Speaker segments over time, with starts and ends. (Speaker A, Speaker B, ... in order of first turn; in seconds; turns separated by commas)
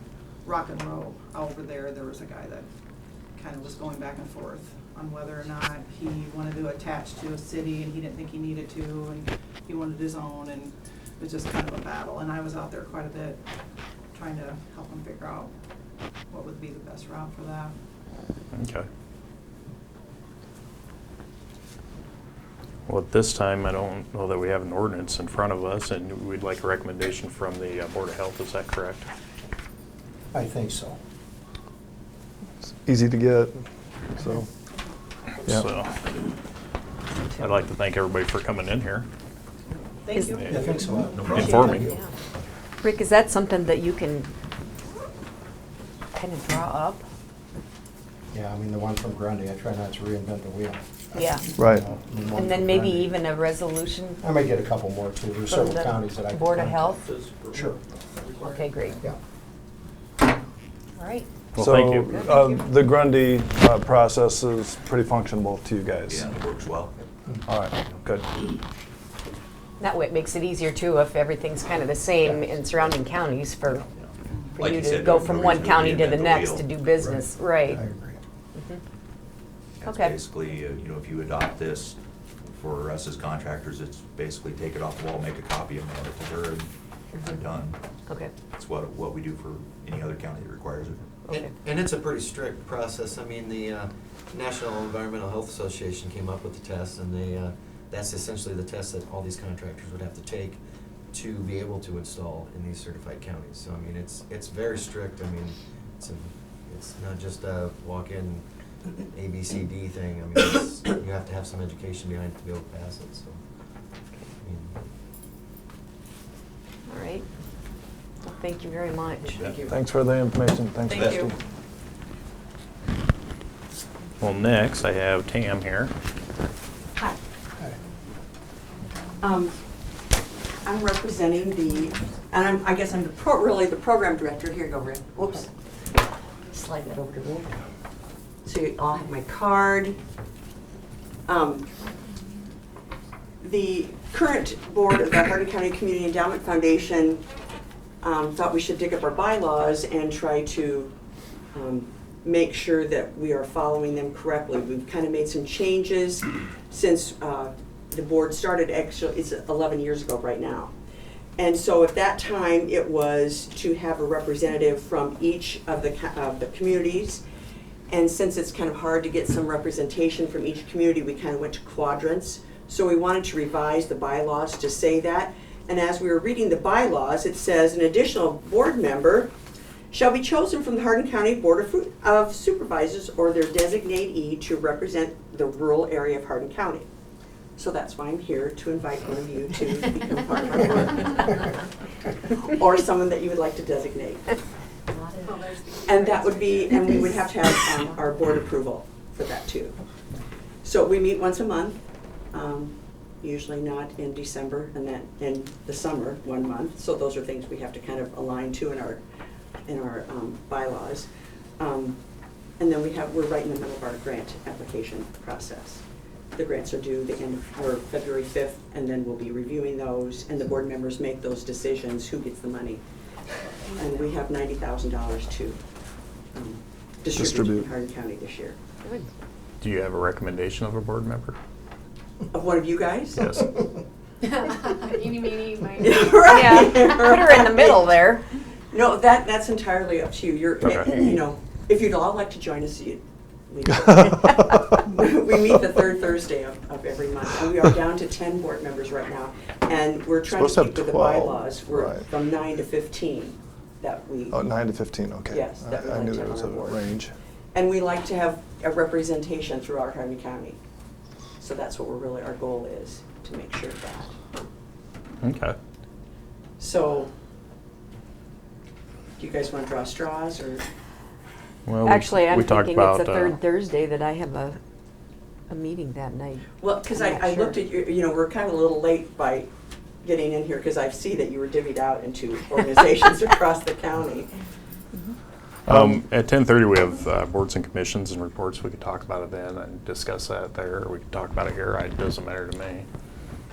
Speaker A: 0.4-2.7, Speaker A: 3.4-13.4, Speaker A: 14.1-15.5, Speaker A: 16.3-17.7, Speaker B: 18.5-18.9, Speaker B: 22.9-29.1, Speaker C: 30.3-31.0, Speaker D: 32.8-34.5, Speaker B: 35.4-36.0, Speaker B: 37.4-39.1, Speaker A: 39.9-41.7, Speaker B: 40.3-41.9, Speaker C: 40.5-42.0, Speaker E: 41.2-41.5, Speaker F: 41.6-42.1, Speaker F: 42.8-44.3, Speaker F: 46.1-47.0, Speaker C: 48.3-53.1, Speaker F: 51.1-51.5, Speaker D: 51.5-51.9, Speaker F: 52.3-54.2, Speaker C: 54.2-57.0, Speaker F: 55.5-57.1, Speaker B: 57.0-58.7, Speaker C: 57.5-57.8, Speaker F: 58.4-59.0, Speaker F: 61.0-61.3, Speaker D: 61.5-66.3, Speaker B: 61.5-62.3, Speaker F: 62.0-62.6, Speaker E: 66.1-67.0, Speaker D: 67.5-68.3, Speaker F: 69.8-73.8, Speaker E: 73.7-77.1, Speaker F: 74.5-77.8, Speaker C: 77.0-78.2, Speaker F: 78.5-78.8, Speaker E: 79.8-87.8, Speaker F: 79.8-80.2, Speaker F: 88.1-88.3, Speaker E: 88.4-91.2, Speaker G: 91.3-100.6, Speaker G: 101.1-108.4, Speaker G: 109.1-113.4, Speaker G: 114.4-114.7, Speaker F: 116.9-117.2, Speaker F: 118.2-119.4, Speaker E: 119.3-119.7, Speaker D: 119.7-121.3, Speaker E: 120.9-121.3, Speaker B: 124.2-125.9, Speaker H: 129.2-129.5, Speaker H: 130.6-135.5, Speaker H: 136.5-137.5, Speaker H: 138.4-140.0, Speaker H: 141.2-141.7, Speaker H: 143.4-147.2, Speaker H: 148.0-150.9, Speaker H: 151.5-160.7, Speaker H: 161.4-167.2, Speaker H: 167.9-179.3, Speaker H: 179.9-186.9, Speaker H: 187.6-191.6, Speaker H: 192.3-194.3, Speaker I: 195.2-197.1, Speaker H: 195.8-199.8, Speaker H: 200.6-201.8, Speaker H: 202.3-209.0, Speaker H: 209.7-211.1, Speaker H: 211.6-212.0, Speaker H: 212.6-215.8, Speaker H: 216.3-222.8, Speaker H: 223.7-225.6, Speaker H: 226.3-228.6, Speaker D: 227.1-227.7, Speaker B: 229.6-231.4, Speaker H: 232.3-233.3, Speaker B: 233.2-233.5, Speaker I: 234.8-236.1, Speaker H: 235.8-237.9, Speaker F: 236.2-238.2, Speaker H: 238.7-254.4, Speaker B: 240.6-241.2, Speaker D: 250.2-252.1, Speaker D: 254.3-257.1, Speaker H: 255.3-256.8, Speaker H: 257.5-260.6, Speaker H: 261.4-264.1, Speaker B: 265.2-265.6, Speaker H: 266.6-267.1, Speaker H: 269.2-270.6, Speaker B: 271.6-273.4, Speaker F: 271.8-274.6, Speaker F: 275.5-277.6, Speaker H: 276.6-279.5, Speaker H: 280.0-284.3, Speaker B: 285.6-292.9, Speaker D: 285.7-286.0